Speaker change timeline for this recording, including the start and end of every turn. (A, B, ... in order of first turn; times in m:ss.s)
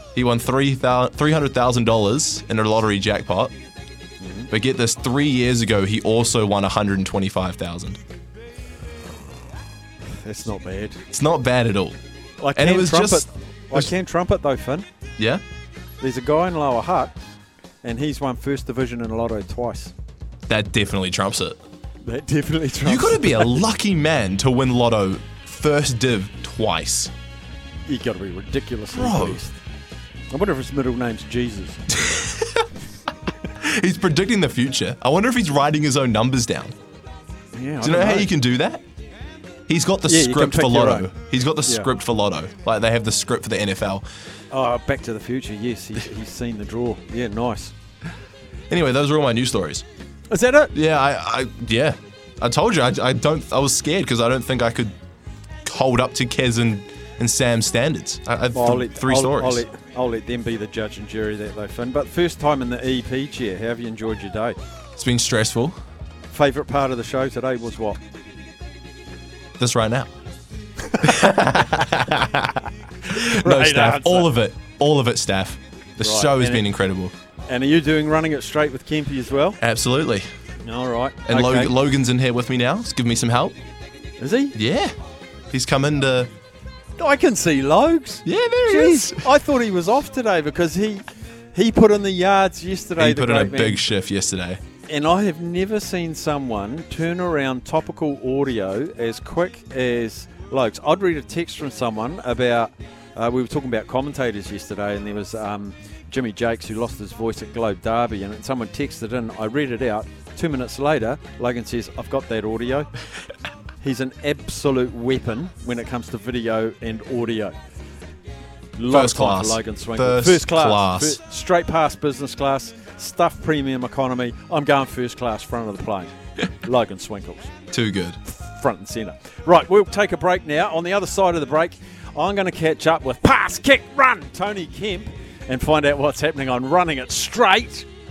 0:00.1-0:03.5 A
0:04.2-0:04.5 B
0:04.5-0:08.0 A
0:10.2-0:11.0 B
0:11.1-0:12.0 A
0:12.4-0:14.9 B
0:12.5-0:13.9 A
0:15.2-0:15.4 A
0:16.0-0:17.1 B
0:17.8-0:19.9 B
0:20.5-0:21.6 A
0:22.0-0:23.6 B
0:22.8-0:27.1 A
0:27.8-0:29.6 B
0:28.9-0:29.4 A
0:30.3-0:31.8 B
0:32.1-0:32.7 A
0:33.4-0:36.7 A
0:37.5-0:38.3 B
0:37.8-0:38.8 A
0:39.7-0:44.0 A
0:40.0-0:41.1 B
0:41.6-0:41.9 B
0:44.5-0:47.7 B
0:48.7-0:49.8 A
0:50.3-0:50.7 B
0:50.7-0:54.9 A
0:55.6-0:59.6 A
0:58.5-1:04.6 B
1:05.0-1:05.8 A
1:06.3-1:08.0 B
1:09.6-1:10.1 A
1:11.0-1:17.1 A
1:13.1-1:14.3 B
1:16.0-1:16.6 B
1:17.5-1:19.6 B
1:19.6-1:20.2 A
1:20.6-1:21.8 B
1:21.2-1:23.6 A
1:24.2-1:24.6 B
1:24.5-1:24.9 A
1:25.5-1:26.3 A
1:27.0-1:31.0 B
1:28.2-1:29.3 A
1:31.5-1:33.8 B
1:33.0-1:34.6 A
1:34.9-1:52.9 B
1:53.8-1:57.5 B
1:58.8-2:07.5 B
1:58.9-2:01.2 A
2:07.7-2:08.2 A
2:08.2-2:17.9 B